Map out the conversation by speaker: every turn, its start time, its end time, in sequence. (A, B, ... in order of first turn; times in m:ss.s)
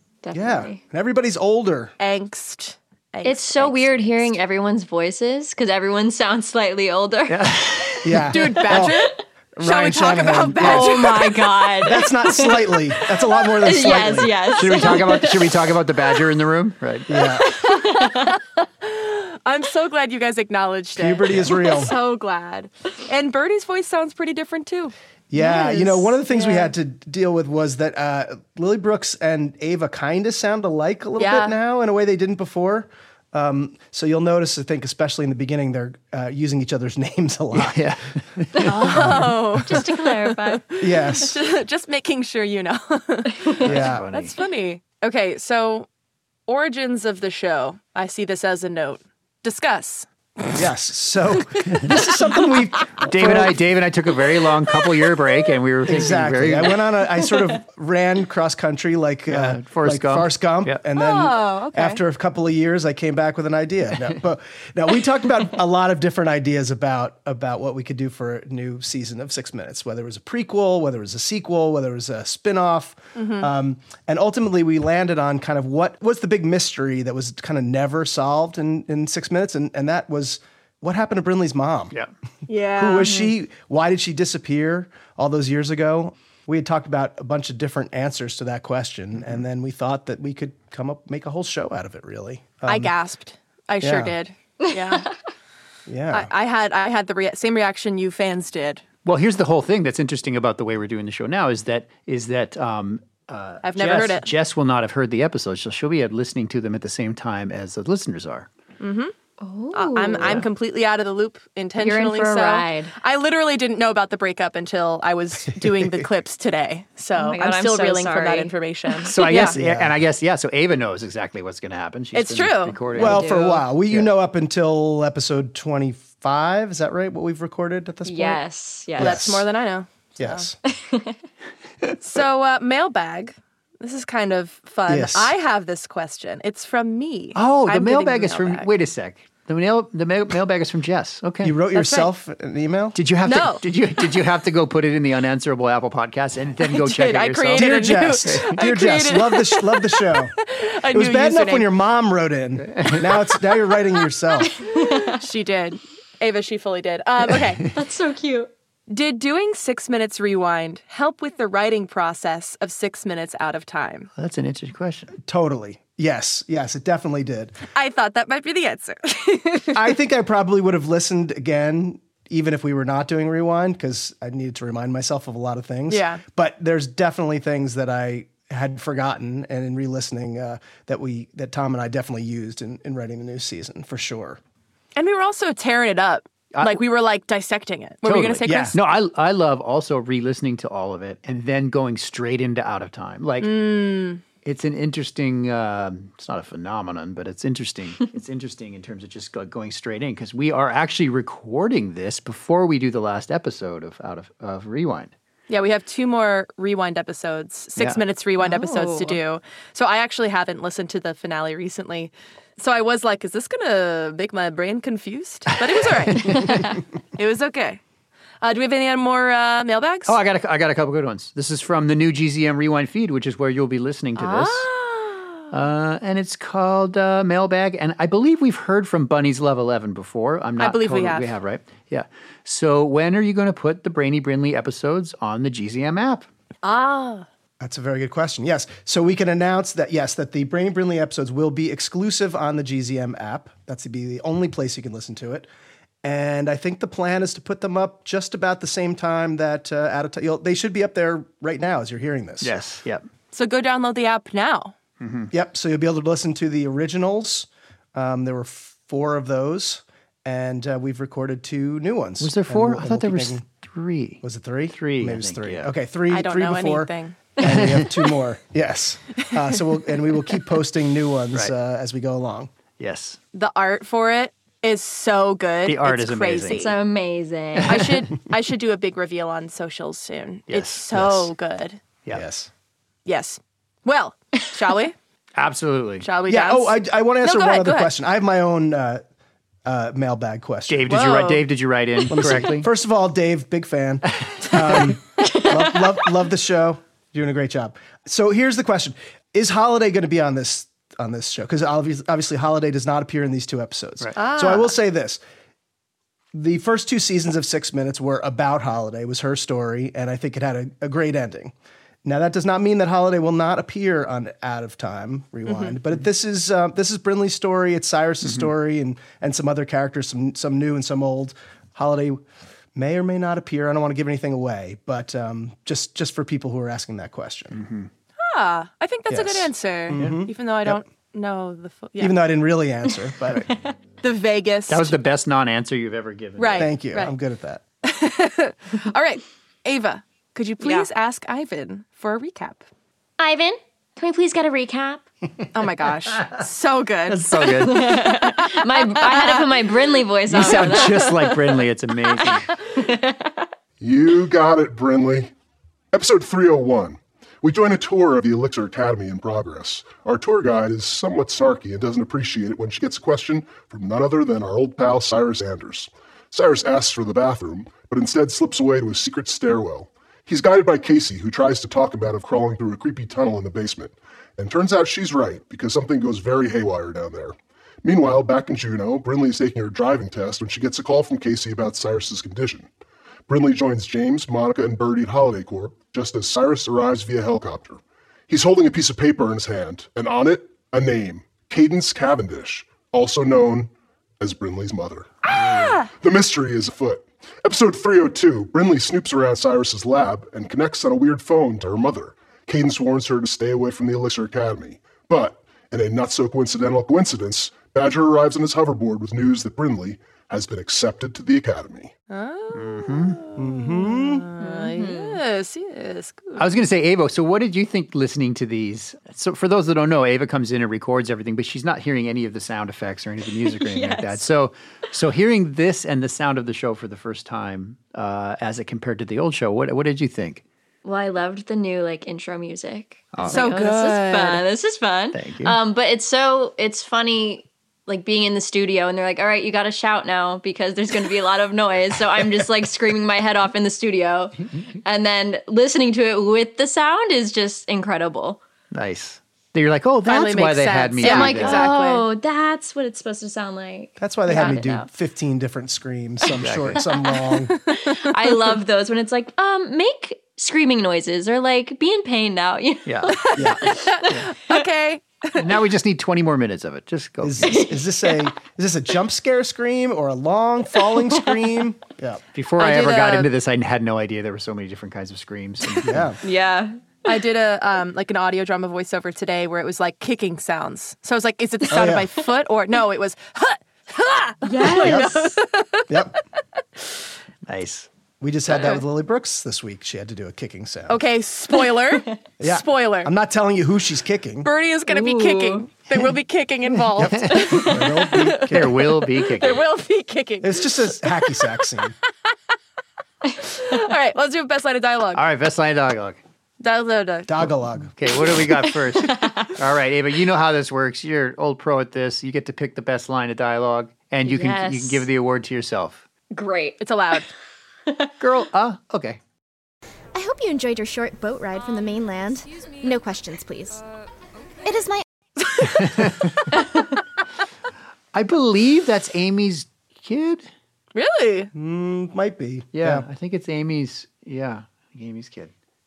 0:00.2-0:00.8 A
0:00.3-0:01.9 B
0:02.0-0:04.3 C
0:03.2-0:07.5 A
0:07.3-0:08.2 D
0:08.0-0:09.0 B
0:08.3-0:11.7 C
0:09.6-0:11.2 B
0:10.6-0:15.4 A
0:11.8-0:14.6 B
0:14.6-0:17.1 D
0:17.1-0:17.5 B
0:17.6-0:26.7 C
0:17.7-0:18.4 A
0:21.0-0:22.0 B
0:25.3-0:37.9 B
0:31.2-0:31.6 C
0:37.6-0:39.2 D
0:38.7-0:45.9 C
0:38.8-0:39.5 B
0:39.6-0:40.6 A
0:40.8-0:41.4 B
0:43.6-0:44.4 D
0:43.6-0:44.1 B
0:46.5-0:50.5 C
0:50.5-0:53.7 B
0:51.9-0:52.4 C
0:53.0-0:56.9 D
0:55.9-1:21.9 B
0:59.3-1:00.8 D
1:01.0-1:02.0 C
1:13.2-1:13.5 C
1:22.5-1:23.3 C
1:22.8-1:32.9 B
1:32.7-1:35.1 C
1:33.8-1:34.2 B
1:35.9-1:36.3 B
1:36.1-1:38.8 C
1:39.0-1:48.5 D
1:43.6-1:44.3 C
1:48.8-1:49.1 C
1:49.4-1:50.4 A
1:49.7-1:59.6 C
1:50.2-1:50.5 D
1:51.8-1:52.9 A
1:55.7-1:56.0 B
1:57.2-1:58.5 A
1:59.0-2:04.1 D
1:59.5-2:00.0 B
2:02.1-2:03.6 C
2:02.9-2:08.4 B
2:08.0-2:09.2 A
2:09.0-2:09.5 B
2:09.0-2:10.5 C
2:10.2-2:10.6 B
2:10.7-2:11.2 A
2:12.0-2:18.7 C
2:14.9-2:15.3 B
2:17.4-2:21.6 D
2:21.4-2:23.0 B
2:21.8-2:22.1 C
2:23.0-2:28.6 D
2:23.2-2:23.6 C
2:26.6-2:31.7 C
2:27.5-2:30.4 B
2:30.9-2:34.6 B
2:32.6-2:33.2 D
2:34.7-2:37.7 C
2:34.8-2:35.2 A
2:37.7-2:38.5 A
2:38.9-2:44.1 C
2:44.2-2:45.1 D
2:45.2-2:47.6 B
2:47.7-2:49.8 C
2:49.7-3:04.4 B
2:55.9-2:56.2 C
3:05.0-3:08.8 C
3:06.5-3:06.8 D
3:08.0-3:13.7 D
3:08.4-3:08.8 B
3:13.4-3:14.2 C
3:14.4-3:25.1 D
3:25.5-3:37.8 C
3:28.4-3:29.2 A
3:36.1-3:36.5 D
3:36.3-3:36.8 A
3:38.4-3:40.2 C
3:40.1-3:44.7 D
3:44.2-3:45.4 C
3:45.5-3:56.3 D
3:50.6-3:51.3 C
3:56.6-3:57.3 C
3:57.6-4:05.5 B
4:06.0-4:12.6 B
4:12.4-4:13.0 D
4:13.3-4:14.8 C
4:15.0-4:15.3 D
4:15.3-4:23.4 B
4:22.2-4:25.7 D
4:24.2-4:32.5 B
4:26.1-4:27.3 C
4:27.4-4:27.9 D
4:32.8-4:33.2 D
4:33.3-4:36.7 C
4:35.6-4:36.7 D
4:36.5-4:37.8 A
4:37.6-4:37.9 D
4:37.7-4:41.8 C
4:40.5-4:41.3 D
4:42.1-4:42.5 B
4:43.1-4:45.0 C
4:45.4-4:46.1 D
4:46.0-4:47.9 C
4:46.3-4:49.0 B
4:49.6-4:51.1 B
4:50.7-4:52.7 D
4:50.9-4:51.4 C
4:52.1-5:05.2 B
4:54.2-4:54.9 D
4:55.2-4:55.5 A
5:04.2-5:04.8 C
5:06.3-5:11.5 B
5:12.0-5:22.2 B
5:15.5-5:15.8 C
5:18.2-5:18.5 D
5:22.8-5:27.6 B
5:27.5-5:27.9 D
5:28.2-5:32.2 C
5:29.1-5:30.8 B
5:32.0-5:33.5 B
5:34.0-5:35.0 C
5:34.7-5:36.7 D
5:36.4-5:37.1 C
5:36.6-5:37.6 B
5:37.8-5:42.6 C
5:40.6-5:40.9 A
5:43.2-5:45.0 A
5:45.5-5:49.5 C
5:47.1-5:48.0 D
5:47.6-5:51.3 A
5:50.3-5:52.5 D
5:52.8-5:53.5 A
5:53.8-5:55.3 E
5:55.9-6:22.7 E
6:23.3-6:51.9 E
6:35.3-6:35.9 C
6:52.1-6:56.5 C
6:52.5-6:53.2 D
6:53.4-6:54.3 B
6:54.4-6:55.2 A
6:56.4-7:10.4 D
7:03.5-7:04.2 A
7:10.8-7:28.4 A
7:13.1-7:13.4 D
7:13.3-7:14.4 C
7:15.1-7:15.6 D
7:28.7-7:31.7 D
7:30.1-7:32.1 C
7:31.0-7:34.9 A
7:34.0-7:37.6 B
7:34.3-7:34.6 C
7:36.4-7:36.8 D
7:37.7-7:38.1 C
7:37.7-7:43.7 A
7:42.8-7:43.2 D
7:43.2-7:45.5 C
7:43.4-7:43.7 B
7:45.4-7:47.5 D
7:47.2-7:52.2 B
7:47.5-7:48.2 A
7:52.4-7:56.1 D
7:52.6-7:53.3 C
7:55.8-7:56.2 B
7:56.2-7:56.8 A
7:57.1-8:06.0 C
8:01.7-8:02.1 B
8:04.4-8:05.4 A
8:04.7-8:05.2 B
8:05.9-8:06.2 B
8:07.5-8:07.9 D
8:08.2-8:11.0 B
8:10.9-8:13.1 C
8:12.4-8:14.5 B
8:14.4-8:21.6 C
8:14.9-8:15.7 A
8:17.0-8:18.9 B
8:17.0-8:17.4 D
8:18.5-8:19.6 D
8:20.4-8:22.0 B
8:23.4-8:25.2 C
8:25.2-8:26.2 D
8:26.6-8:27.5 C
8:27.3-8:27.9 B
8:28.0-8:36.0 D
8:29.0-8:29.5 A
8:34.2-8:35.1 A
8:36.3-8:36.8 A
8:36.8-8:37.3 C
8:38.2-8:39.2 D
8:40.1-8:43.8 F
8:44.6-8:45.0 F
8:45.6-8:46.0 C
8:45.6-8:46.4 D
8:48.1-8:50.5 D
8:51.0-8:51.5 C
8:51.5-8:53.1 B
8:52.7-8:55.5 D